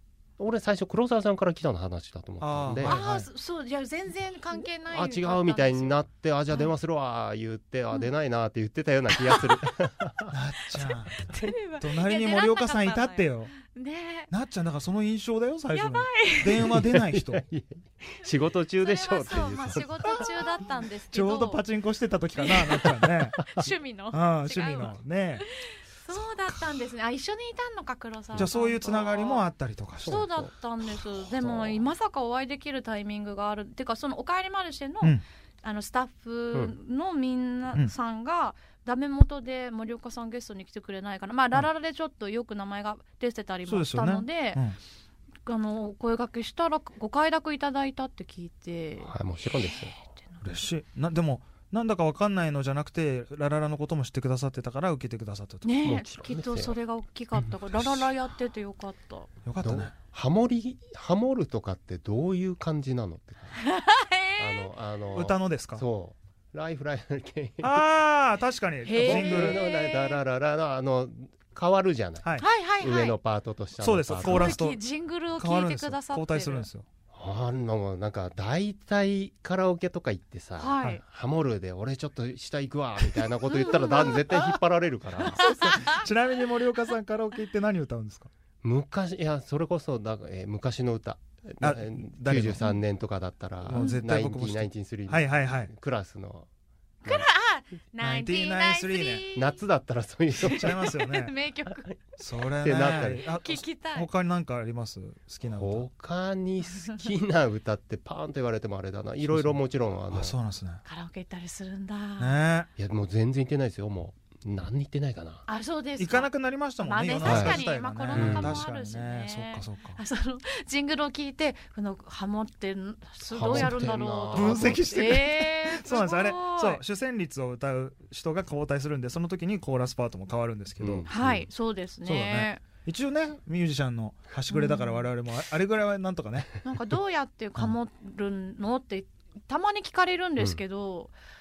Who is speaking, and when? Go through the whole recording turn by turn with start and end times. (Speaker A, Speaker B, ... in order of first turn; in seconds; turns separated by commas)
Speaker A: 0.4-3.0, Speaker B: 2.4-3.3, Speaker C: 2.8-6.7, Speaker A: 4.9-10.3, Speaker B: 10.3-11.3, Speaker C: 11.2-14.3, Speaker B: 11.8-13.5, Speaker B: 14.3-17.4, Speaker C: 15.7-16.7, Speaker A: 16.6-20.5, Speaker C: 18.8-21.6, Speaker B: 20.1-20.4, Speaker B: 21.1-25.4, Speaker C: 22.4-22.9, Speaker A: 22.7-23.7, Speaker C: 23.6-25.0, Speaker C: 25.5-29.5, Speaker B: 28.4-30.3, Speaker A: 30.0-30.5, Speaker C: 30.1-44.6, Speaker A: 31.0-31.9, Speaker B: 43.7-44.8, Speaker C: 45.5-49.2, Speaker A: 49.0-49.9, Speaker C: 49.8-50.4, Speaker B: 50.4-55.8, Speaker C: 55.6-59.3, Speaker A: 55.8-56.8, Speaker B: 57.7-58.0, Speaker B: 59.5-59.9, Speaker A: 59.6-63.6, Speaker C: 63.5-64.7, Speaker A: 64.4-67.8, Speaker B: 65.1-65.8, Speaker B: 67.6-69.6, Speaker C: 68.8-70.2, Speaker A: 69.0-74.6, Speaker C: 72.4-73.2, Speaker B: 73.8-74.8, Speaker C: 74.2-76.7, Speaker B: 75.3-76.9, Speaker A: 77.1-85.9, Speaker C: 80.6-81.0, Speaker C: 83.6-84.2, Speaker B: 84.3-84.6, Speaker B: 85.2-88.3, Speaker C: 85.4-86.0, Speaker A: 88.6-96.5, Speaker B: 91.6-92.6, Speaker B: 93.7-95.7, Speaker C: 93.8-94.0, Speaker A: 97.0-97.3, Speaker C: 97.0-99.6, Speaker B: 98.0-99.3, Speaker A: 99.3-100.9, Speaker C: 100.4-101.8, Speaker B: 100.5-101.3, Speaker A: 101.7-102.0, Speaker B: 102.2-105.9, Speaker A: 102.6-103.3, Speaker C: 103.4-104.1, Speaker A: 105.5-110.4, Speaker B: 109.3-110.8, Speaker C: 110.8-112.4, Speaker B: 112.2-112.7, Speaker A: 112.8-115.5, Speaker C: 115.5-126.8, Speaker B: 116.0-120.0, Speaker A: 117.2-118.7, Speaker A: 123.3-125.2, Speaker B: 123.5-131.1, Speaker A: 130.8-131.5, Speaker C: 131.1-132.6, Speaker B: 132.1-136.5, Speaker C: 134.5-135.1, Speaker C: 136.6-141.1